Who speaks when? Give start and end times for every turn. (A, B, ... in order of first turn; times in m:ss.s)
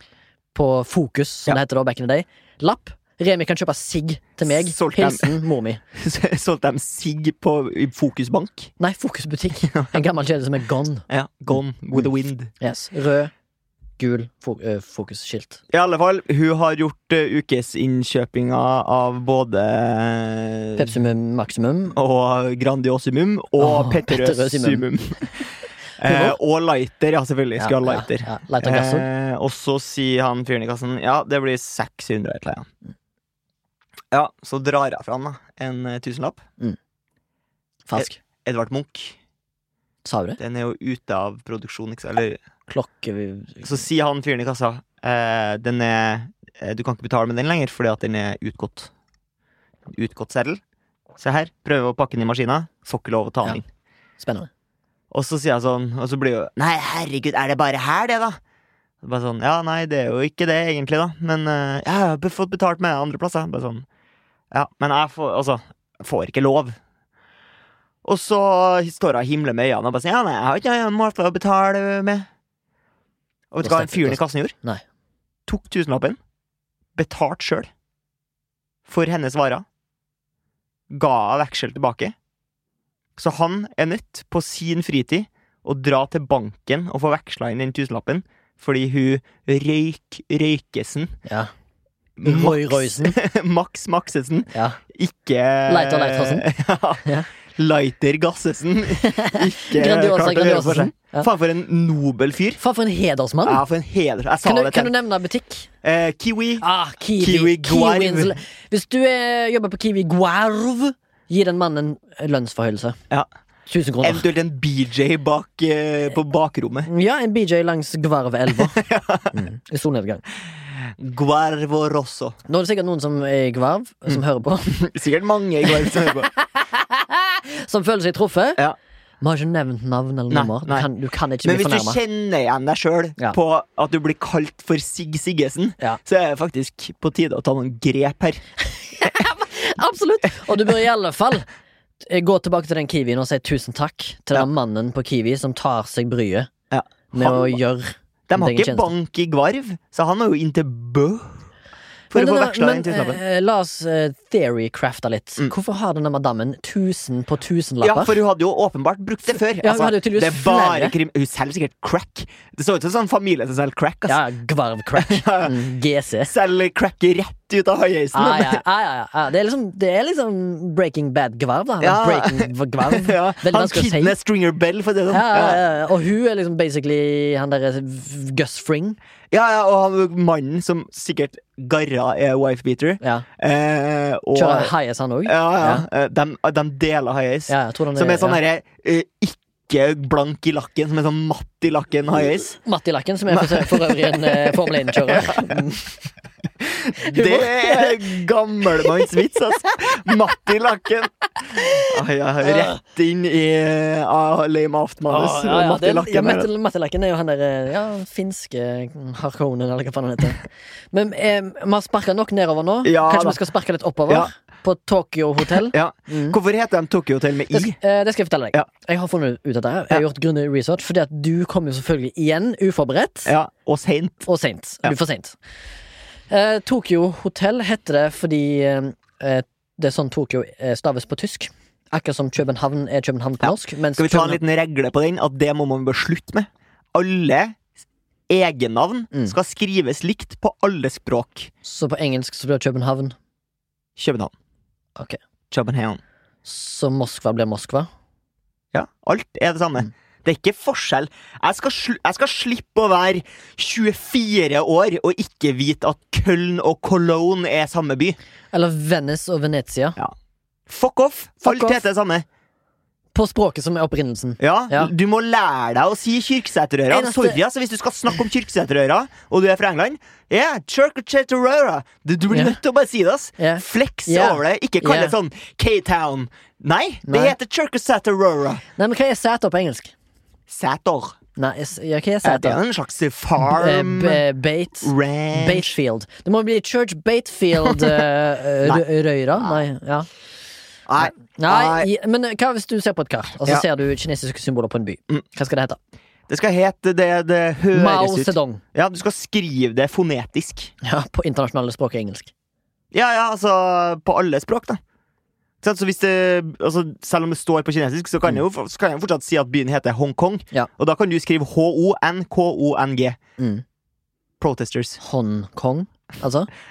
0:00.5-0:05.8 A
0:04.4-0:05.4 B
0:05.9-0:08.7 B
0:08.8-0:11.0 A
0:09.6-0:10.0 B
0:11.1-0:12.5 B
0:12.6-0:13.3 A
0:14.0-0:15.6 A
0:15.7-0:20.9 B
0:20.8-0:22.0 A
0:22.0-0:32.7 B
0:23.6-0:25.3 A
0:26.1-0:26.4 A
0:27.6-0:29.1 A
0:34.1-0:36.4 B
0:37.9-0:38.2 A
0:38.0-0:39.2 B
0:40.0-0:40.4 A
0:40.4-0:42.4 B
0:42.7-0:43.7 A
0:43.6-0:48.9 B
0:49.9-0:50.6 B
0:51.2-0:53.6 B
0:54.2-0:54.5 A
0:55.1-0:58.4 B
0:59.0-1:03.9 B
1:04.5-1:06.8 B
1:08.0-1:12.3 B
1:13.5-1:14.5 B
1:13.6-1:14.8 A
1:15.5-1:16.2 B
1:16.9-1:17.7 B
1:18.9-1:19.6 B
1:20.9-1:22.1 B
1:23.2-1:31.1 B
1:31.2-1:31.5 A
1:32.2-1:42.6 B
1:32.2-1:33.2 A
1:34.5-1:34.8 A
1:35.7-1:36.5 A
1:39.0-1:41.3 A
1:42.6-1:43.6 A
1:43.4-1:44.9 B
1:44.4-1:45.7 A
1:45.8-1:46.6 B
1:46.6-1:53.0 A
1:47.2-1:48.4 B
1:53.7-1:54.2 A
1:54.0-1:56.9 B
1:56.9-1:58.8 A
1:58.8-1:59.3 B
1:59.3-2:00.2 A
2:00.9-2:02.4 B
2:02.5-2:04.8 A
2:04.1-2:06.3 B
2:05.8-2:08.6 A
2:09.2-2:12.0 A
2:10.3-2:10.9 B
2:11.4-2:18.4 B
2:18.7-2:21.5 A
2:22.0-2:26.5 A
2:26.7-2:27.6 B
2:27.1-2:28.9 A
2:28.3-2:31.4 B
2:32.1-2:33.2 B
2:32.1-2:38.2 A
2:37.8-2:44.2 B
2:39.6-2:40.9 A
2:44.1-2:46.3 A
2:45.0-2:45.6 B
2:46.3-2:48.6 B
2:48.1-2:54.1 A
2:51.8-2:55.6 B
2:55.1-2:59.0 A
2:59.3-3:04.7 B
3:04.3-3:05.9 A
3:05.2-3:12.6 B
3:07.5-3:08.4 A
3:12.6-3:16.0 A
3:13.3-3:15.6 B
3:16.6-3:26.5 B
3:17.0-3:18.0 A
3:18.8-3:19.1 A
3:21.5-3:22.8 A
3:25.1-3:36.4 A
3:32.8-3:33.4 B
3:35.5-3:37.8 B
3:37.5-3:43.3 A
3:43.2-3:44.2 B
3:44.2-3:45.4 A
3:46.3-3:54.4 A
3:53.4-3:57.6 B
3:58.3-4:01.5 B
4:01.6-4:03.1 A
4:04.0-4:04.3 B
4:05.5-4:06.0 B
4:06.4-4:07.9 A
4:08.7-4:18.2 B
4:18.5-4:20.0 A
4:20.7-4:22.2 B
4:21.4-4:21.8 A
4:23.1-4:24.9 A
4:24.4-4:38.6 B
4:26.9-4:27.4 A
4:32.3-4:32.6 A
4:33.4-4:35.1 A
4:37.0-4:37.4 A
4:38.8-4:39.9 A
4:40.5-4:41.2 B
4:41.4-4:42.6 A
4:42.2-4:44.2 B
4:43.4-4:50.1 A
4:44.8-4:45.8 B
4:47.6-4:48.0 B
4:50.9-4:51.9 B
4:51.0-4:55.8 A
4:56.3-5:00.7 B
4:57.7-4:58.6 A
5:00.8-5:02.3 A
5:02.9-5:04.8 B
5:05.6-5:13.2 B
5:13.4-5:13.6 A
5:14.4-5:15.0 B
5:15.0-5:16.5 A